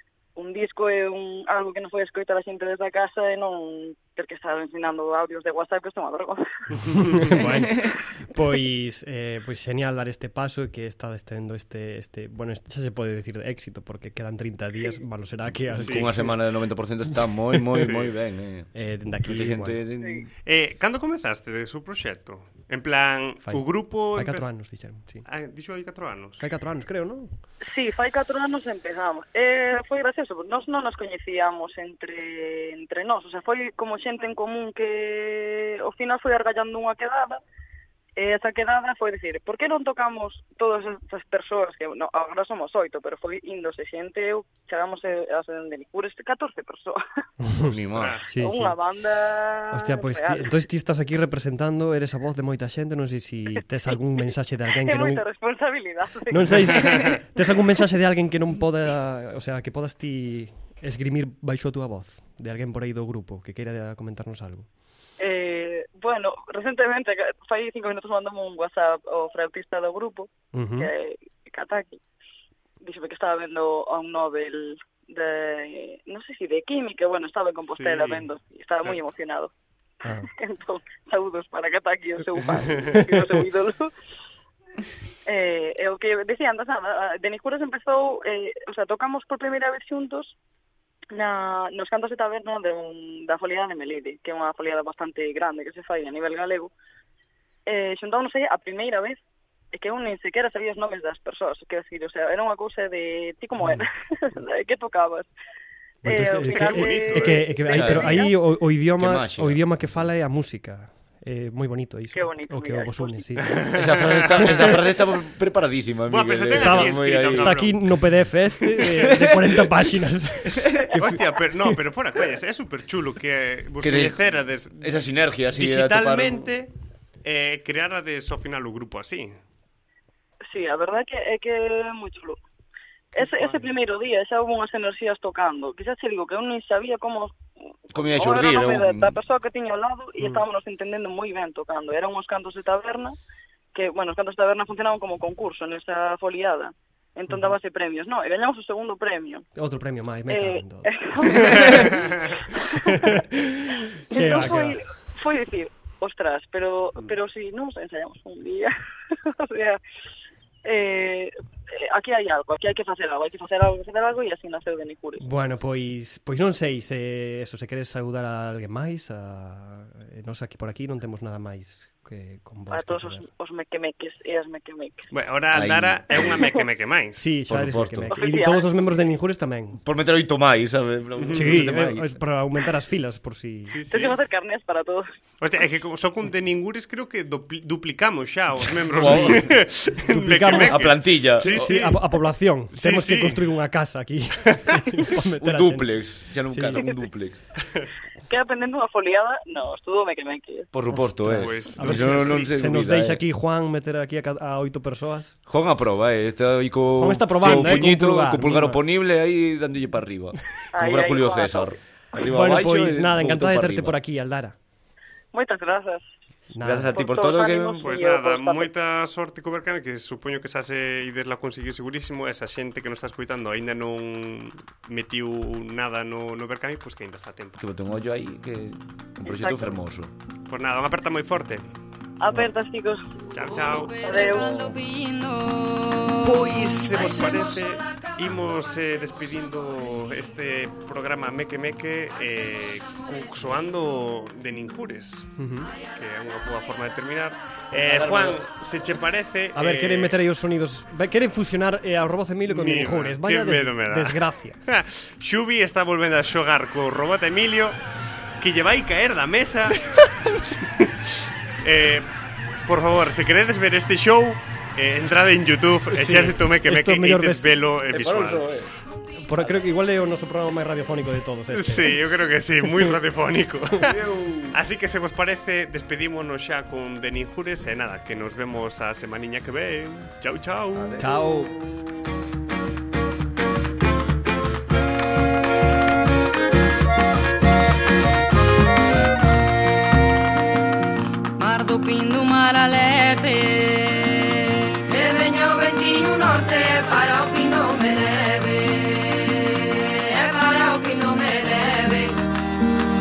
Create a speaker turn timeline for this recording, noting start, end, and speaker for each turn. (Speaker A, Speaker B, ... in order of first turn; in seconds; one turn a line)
Speaker A: 0.3-6.4
Speaker B: 6.9-16.4
Speaker C: 15.7-18.7
Speaker D: 15.8-16.2
Speaker D: 17.8-18.1
Speaker B: 18.7-19.8
Speaker C: 19.2-20.3
Speaker D: 20.4-24.5
Speaker B: 23.4-25.2
Speaker D: 25.2-26.4
Speaker B: 26.4-27.3
Speaker A: 27.6-37.4
Speaker A: 38.2-47.0
Speaker B: 47.4-48.8
Speaker C: 47.7-48.2
Speaker D: 47.9-48.3
Speaker A: 48.4-50.5
Speaker B: 49.7-55.2
Speaker A: 54.8-57.2
Speaker B: 56.3-64.7
Speaker A: 65.2-72.0
Speaker B: 70.5-70.9
Speaker A: 72.8-79.5
Speaker D: 77.6-78.3
Speaker B: 80.0-80.3
Speaker A: 80.2-83.9
Speaker B: 82.7-83.4
Speaker A: 85.2-90.3
Speaker A: 91.1-96.7
Speaker A: 97.7-99.2
Speaker A: 99.7-105.3
Speaker B: 106.0-113.7
Speaker A: 106.0-108.3
Speaker D: 106.5-107.5
Speaker C: 107.7-108.3
Speaker C: 108.8-110.1
Speaker A: 112.1-113.4
Speaker D: 113.6-114.7
Speaker C: 113.7-117.7
Speaker B: 114.3-114.7
Speaker D: 116.1-117.9
Speaker B: 116.5-121.7
Speaker C: 118.9-119.8
Speaker D: 120.9-126.7
Speaker C: 123.8-124.2
Speaker C: 124.7-126.5
Speaker D: 127.2-129.3
Speaker A: 130.5-132.4
Speaker D: 133.1-133.6
Speaker A: 133.2-137.4
Speaker A: 137.9-143.2
Speaker C: 137.9-139.2
Speaker A: 143.7-149.5
Speaker B: 147.3-147.5
Speaker B: 149.6-154.8
Speaker A: 150.3-153.2
Speaker A: 154.1-158.7
Speaker A: 159.2-159.8
Speaker A: 160.6-165.2
Speaker B: 165.2-173.3
Speaker A: 172.7-175.1
Speaker D: 175.1-177.2
Speaker C: 175.5-176.5
Speaker A: 176.3-176.6
Speaker B: 177.2-179.8
Speaker C: 177.4-178.1
Speaker A: 178.1-178.7
Speaker C: 179.8-182.1
Speaker D: 181.2-181.6
Speaker B: 181.3-183.8
Speaker D: 183.7-184.2
Speaker A: 183.9-185.1
Speaker D: 185.4-192.1
Speaker C: 188.8-189.6
Speaker B: 190.1-195.9
Speaker C: 190.5-191.7
Speaker D: 192.7-193.4
Speaker D: 194.5-194.8
Speaker C: 195.4-197.4
Speaker B: 196.5-196.9
Speaker A: 198.3-200.7
Speaker C: 200.7-203.2
Speaker B: 200.9-205.3
Speaker D: 201.3-202.5
Speaker C: 205.5-214.0
Speaker B: 207.0-208.8
Speaker D: 207.4-207.8
Speaker A: 210.7-211.8
Speaker B: 212.3-214.6
Speaker A: 215.3-216.0
Speaker B: 216.5-216.9
Speaker C: 216.6-217.8
Speaker A: 216.9-218.7
Speaker D: 217.8-227.6
Speaker C: 227.6-230.1
Speaker A: 229.2-229.8
Speaker D: 230.5-231.6
Speaker A: 232.2-233.0
Speaker D: 233.3-234.0
Speaker E: 233.6-237.5
Speaker A: 234.0-234.4
Speaker C: 234.3-234.8
Speaker D: 236.2-245.3
Speaker B: 245.4-245.7
Speaker D: 245.9-250.2
Speaker C: 247.8-248.5
Speaker B: 249.5-254.6
Speaker D: 252.5-257.8
Speaker D: 258.4-259.8
Speaker D: 260.5-261.1
Speaker D: 261.6-262.1
Speaker D: 262.6-268.5
Speaker B: 265.9-267.5
Speaker C: 267.9-268.7
Speaker B: 269.2-272.0
Speaker C: 269.3-269.6
Speaker D: 271.5-280.9
Speaker B: 272.6-272.9
Speaker C: 273.9-274.6
Speaker C: 280.7-281.8
Speaker B: 281.0-281.5
Speaker E: 291.4-302.2